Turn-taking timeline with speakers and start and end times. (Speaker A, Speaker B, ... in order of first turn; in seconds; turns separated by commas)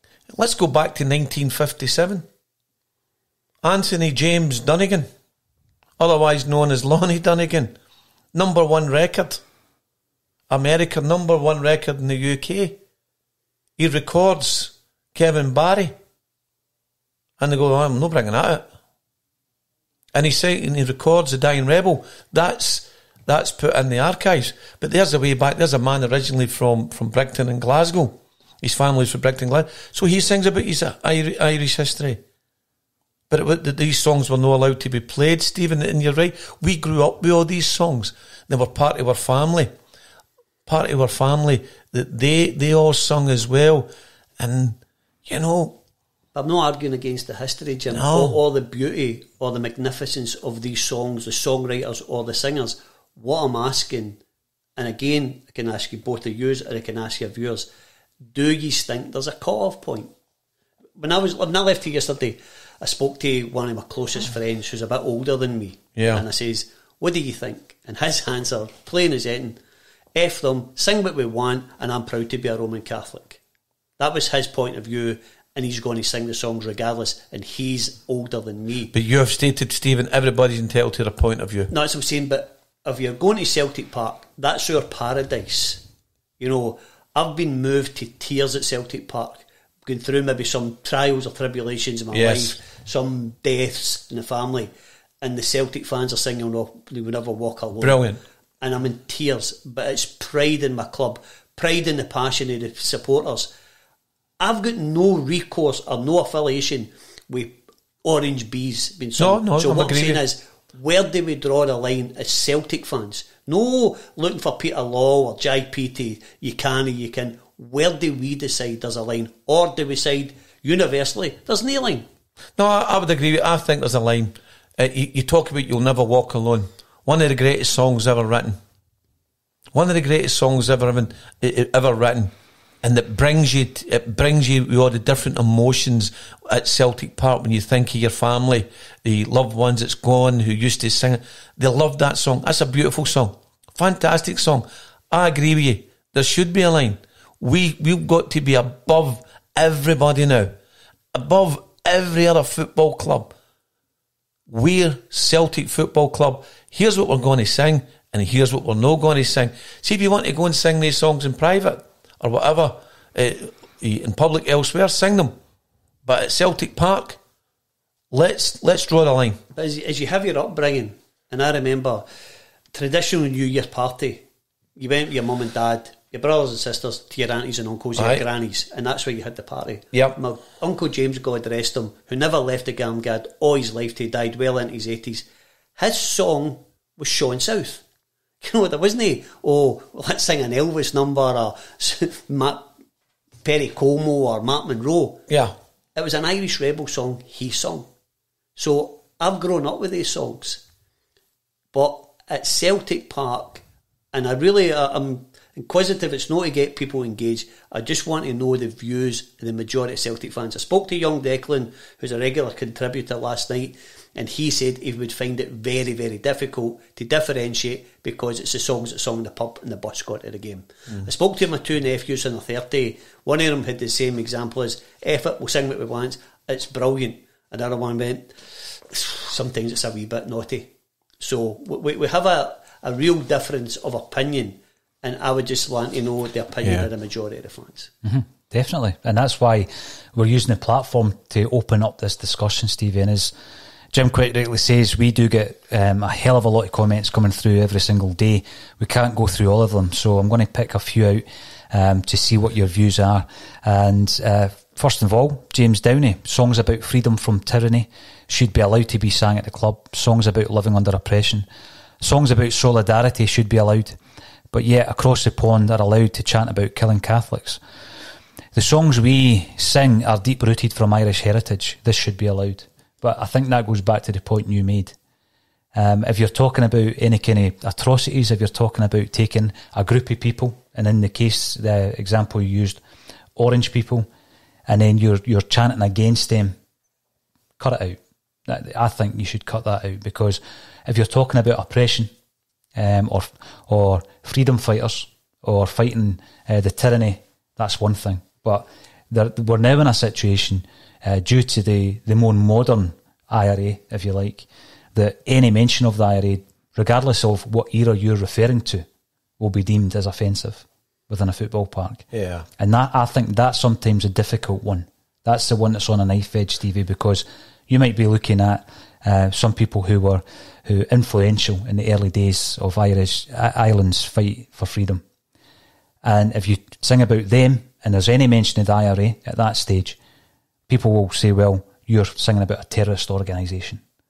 Speaker A: 0.4-2.3, Speaker A: 3.6-5.1, Speaker A: 6.0-7.8, Speaker A: 8.3-9.4, Speaker A: 10.5-12.8, Speaker A: 13.8-15.9, Speaker A: 17.4-18.6, Speaker A: 20.1-32.2, Speaker A: 33.3-39.7, Speaker A: 40.7-43.9, Speaker A: 44.4-45.8, Speaker B: 46.4-54.2, Speaker A: 47.9-48.4, Speaker B: 54.8-57.7, Speaker B: 58.3-60.1, Speaker B: 61.0-69.6, Speaker A: 66.0-66.2, Speaker B: 70.1-73.4, Speaker B: 74.0-78.9, Speaker A: 78.9-81.7, Speaker B: 81.7-85.8, Speaker B: 86.4-94.7, Speaker A: 92.1-92.6, Speaker B: 95.2-98.0, Speaker A: 97.8-98.2, Speaker B: 98.6-103.5, Speaker B: 104.4-122.1, Speaker A: 109.2-110.2, Speaker A: 122.6-128.6, Speaker A: 129.7-150.6, Speaker A: 151.1-153.3, Speaker A: 154.5-165.3, Speaker A: 166.1-167.2, Speaker A: 168.1-169.4, Speaker B: 169.6-172.1, Speaker B: 172.7-187.8, Speaker A: 178.0-178.2, Speaker A: 179.9-180.2, Speaker B: 188.4-192.7, Speaker B: 193.4-195.2, Speaker A: 195.3-195.5, Speaker B: 195.9-197.9, Speaker B: 198.6-200.6, Speaker B: 201.7-237.9, Speaker C: 238.0-243.3, Speaker C: 243.9-261.5, Speaker C: 262.0-264.0, Speaker C: 264.5-267.6, Speaker C: 268.5-275.0, Speaker C: 275.7-282.8, Speaker C: 283.4-284.1, Speaker C: 284.7-286.6, Speaker C: 287.6-292.1, Speaker C: 292.8-308.9, Speaker C: 309.4-312.1, Speaker A: 312.1-312.5, Speaker C: 312.6-325.0, Speaker C: 326.0-330.0, Speaker C: 330.7-333.8